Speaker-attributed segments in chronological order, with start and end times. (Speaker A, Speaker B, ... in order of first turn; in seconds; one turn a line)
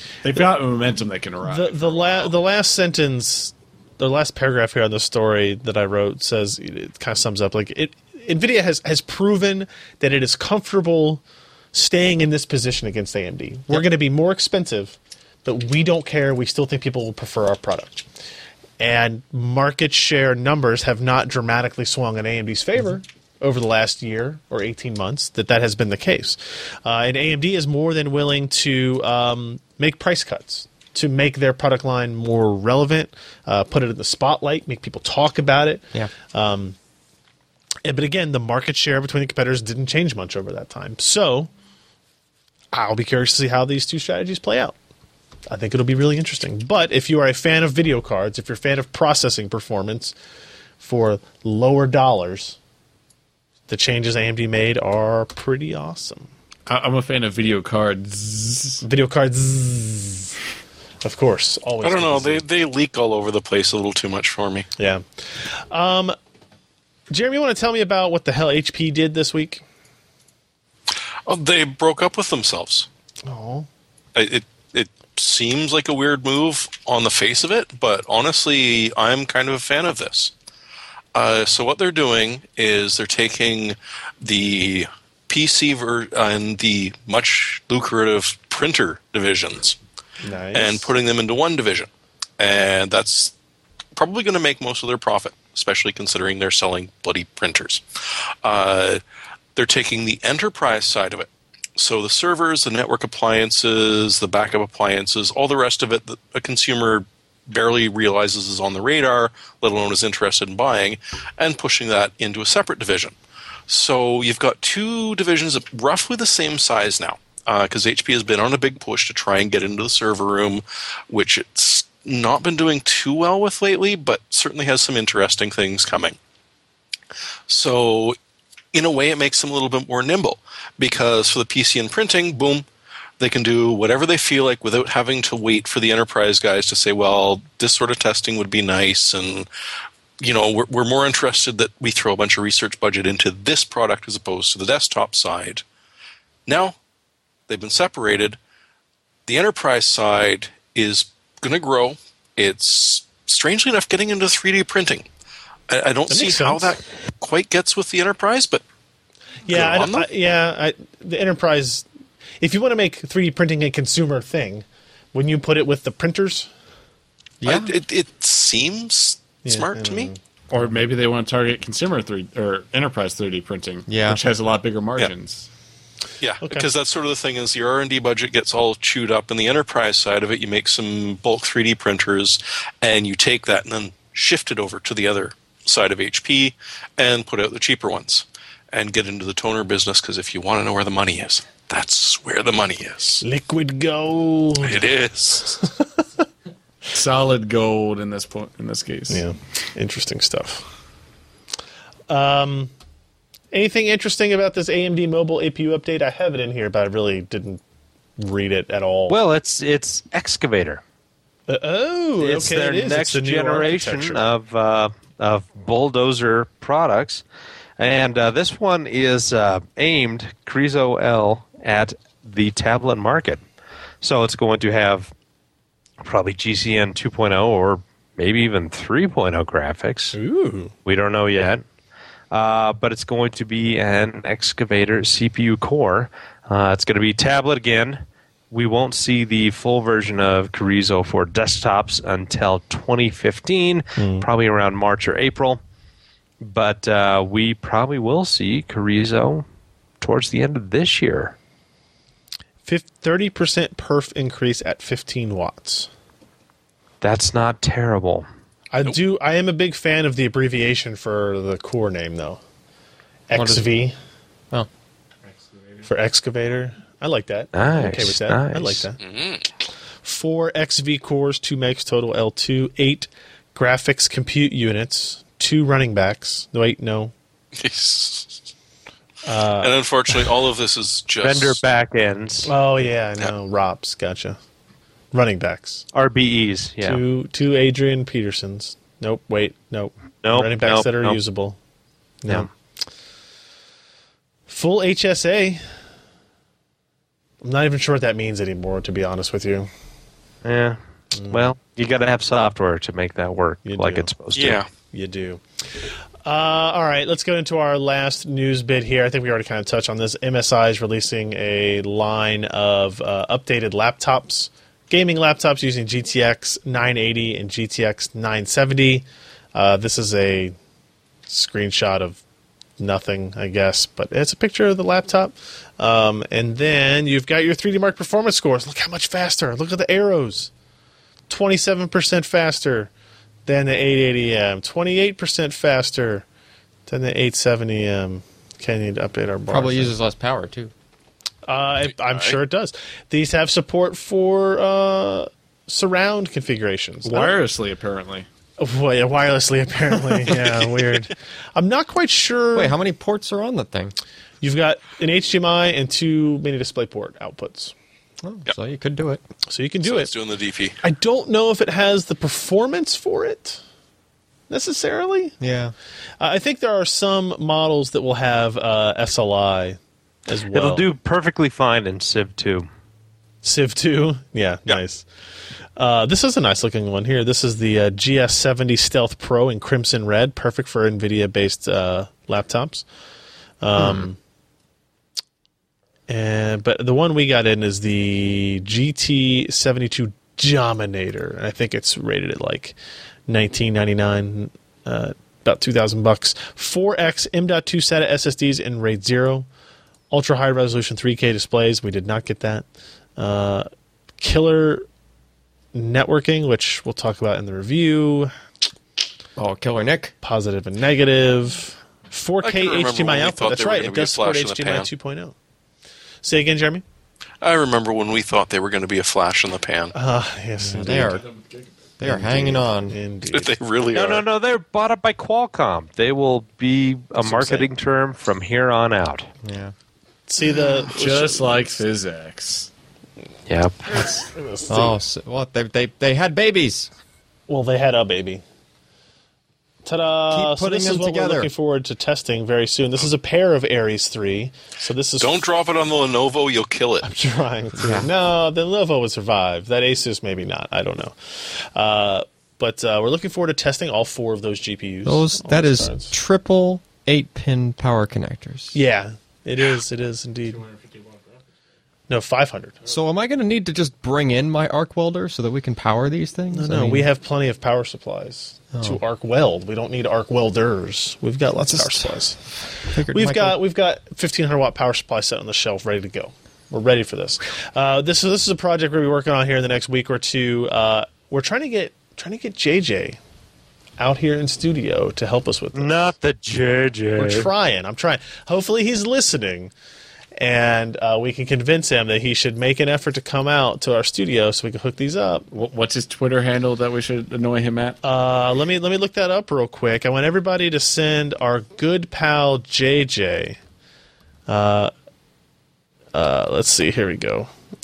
Speaker A: 0.2-2.3
Speaker B: 1.4-18.1
Speaker B: 18.8-36.8
Speaker B: 37.8-41.5
Speaker B: 42.7-44.8
Speaker B: 45.5-50.1
Speaker B: 50.8-52.6
Speaker B: 53.7-56.3
Speaker A: 56.7-58.8
Speaker B: 58.8-60.3
Speaker B: 61.0-62.5
Speaker C: 61.8-64.7
Speaker B: 64.8-65.0
Speaker B: 65.7-66.2
Speaker B: 67.1-69.6
Speaker C: 71.3-72.9
Speaker B: 73.3-73.7
Speaker C: 74.2-80.3
Speaker C: 81.1-89.8
Speaker B: 90.2-90.9
Speaker C: 90.5-93.3
Speaker C: 94.0-97.8
Speaker C: 98.4-99.0
Speaker C: 99.5-113.2
Speaker C: 113.7-126.2
Speaker C: 127.5-128.2
Speaker C: 128.7-132.7
Speaker C: 133.2-139.5
Speaker C: 140.2-145.6
Speaker C: 146.5-146.8
Speaker C: 147.5-148.4
Speaker C: 149.3-155.1
Speaker C: 155.7-158.6
Speaker B: 156.1-156.8
Speaker B: 159.5-161.9
Speaker C: 159.5-160.1
Speaker B: 162.4-166.5
Speaker D: 167.4-167.7
Speaker C: 167.4-170.1
Speaker B: 169.4-170.2
Speaker A: 170.5-175.5
Speaker D: 173.9-174.2
Speaker C: 176.2-193.2
Speaker B: 176.4-176.7
Speaker B: 193.2-194.9
Speaker C: 194.6-195.6
Speaker B: 195.5-196.0
Speaker A: 196.9-199.2
Speaker B: 199.1-200.7
Speaker B: 202.1-202.7
Speaker B: 203.5-207.6
Speaker B: 208.2-209.2
Speaker E: 209.1-210.8
Speaker B: 211.5-214.2
Speaker E: 212.2-217.2
Speaker E: 217.8-223.4
Speaker E: 224.0-225.1
Speaker E: 226.0-230.2
Speaker B: 230.1-230.7
Speaker E: 230.8-231.6
Speaker E: 232.3-245.6
Speaker B: 244.0-244.3
Speaker E: 246.4-249.4
Speaker E: 250.0-251.3
Speaker B: 252.7-255.9
Speaker E: 257.0-258.3
Speaker B: 258.7-262.4
Speaker B: 263.3-264.0
Speaker D: 263.3-263.7
Speaker B: 265.8-269.0
Speaker E: 267.6-268.9
Speaker C: 269.0-269.5
Speaker B: 270.0-277.1
Speaker C: 277.6-278.4
Speaker B: 279.2-279.8
Speaker C: 279.6-281.6
Speaker E: 281.2-282.5
Speaker B: 282.5-284.4
Speaker B: 285.1-285.9
Speaker E: 285.9-287.0
Speaker B: 286.8-291.6
Speaker E: 290.2-291.2
Speaker B: 292.2-292.5
Speaker B: 294.5-295.6
Speaker B: 297.4-299.7
Speaker E: 300.4-300.8
Speaker B: 301.1-301.5
Speaker E: 301.3-304.6
Speaker B: 303.7-304.1
Speaker C: 304.3-304.7
Speaker B: 304.9-305.4
Speaker B: 306.2-320.6
Speaker B: 321.3-322.2
Speaker B: 322.8-330.5
Speaker B: 331.3-332.9
Speaker B: 333.5-336.3
Speaker B: 336.9-339.9
Speaker D: 339.5-340.7
Speaker B: 341.5-347.4
Speaker C: 342.1-342.4
Speaker A: 347.0-348.3
Speaker B: 348.6-352.8
Speaker D: 352.6-353.9
Speaker B: 354.4-357.7
Speaker D: 358.2-359.2
Speaker B: 359.5-360.1
Speaker C: 359.8-360.8
Speaker B: 360.8-363.6
Speaker B: 364.5-365.4
Speaker D: 365.4-365.7
Speaker B: 366.2-370.9
Speaker E: 370.5-372.7
Speaker B: 373.4-375.1
Speaker B: 375.8-382.9
Speaker B: 383.6-384.2
Speaker B: 386.1-392.8
Speaker B: 393.3-399.5
Speaker B: 400.1-402.7
Speaker B: 403.2-403.7
Speaker B: 404.2-404.9
Speaker B: 405.7-408.3
Speaker D: 409.4-410.1
Speaker B: 410.2-415.4
Speaker C: 412.4-414.9
Speaker B: 416.2-416.8
Speaker C: 417.4-419.9
Speaker B: 419.9-421.2
Speaker D: 420.8-421.3
Speaker A: 420.8-421.7
Speaker D: 422.0-423.0
Speaker B: 422.0-423.6
Speaker C: 423.3-424.2
Speaker E: 423.9-429.3
Speaker B: 427.2-427.7
Speaker D: 429.4-429.7
Speaker B: 430.3-431.7
Speaker A: 430.6-432.7
Speaker E: 433.5-433.9
Speaker B: 433.9-435.0
Speaker D: 434.7-436.9
Speaker B: 437.5-438.4
Speaker B: 439.8-445.5
Speaker D: 440.3-441.5
Speaker C: 445.2-447.1
Speaker B: 447.0-456.1
Speaker D: 447.8-448.1
Speaker D: 455.1-458.8
Speaker B: 458.7-460.7
Speaker A: 460.6-461.3
Speaker B: 462.1-462.8
Speaker D: 462.9-467.1
Speaker B: 466.5-472.4
Speaker D: 468.7-469.0
Speaker D: 471.7-472.2
Speaker D: 472.9-473.6
Speaker B: 473.1-483.2
Speaker B: 484.0-486.1
Speaker E: 485.8-487.5
Speaker B: 487.2-489.7
Speaker B: 490.4-495.5
Speaker A: 495.5-498.0
Speaker B: 498.0-503.6
Speaker B: 504.5-504.9
Speaker B: 506.1-507.5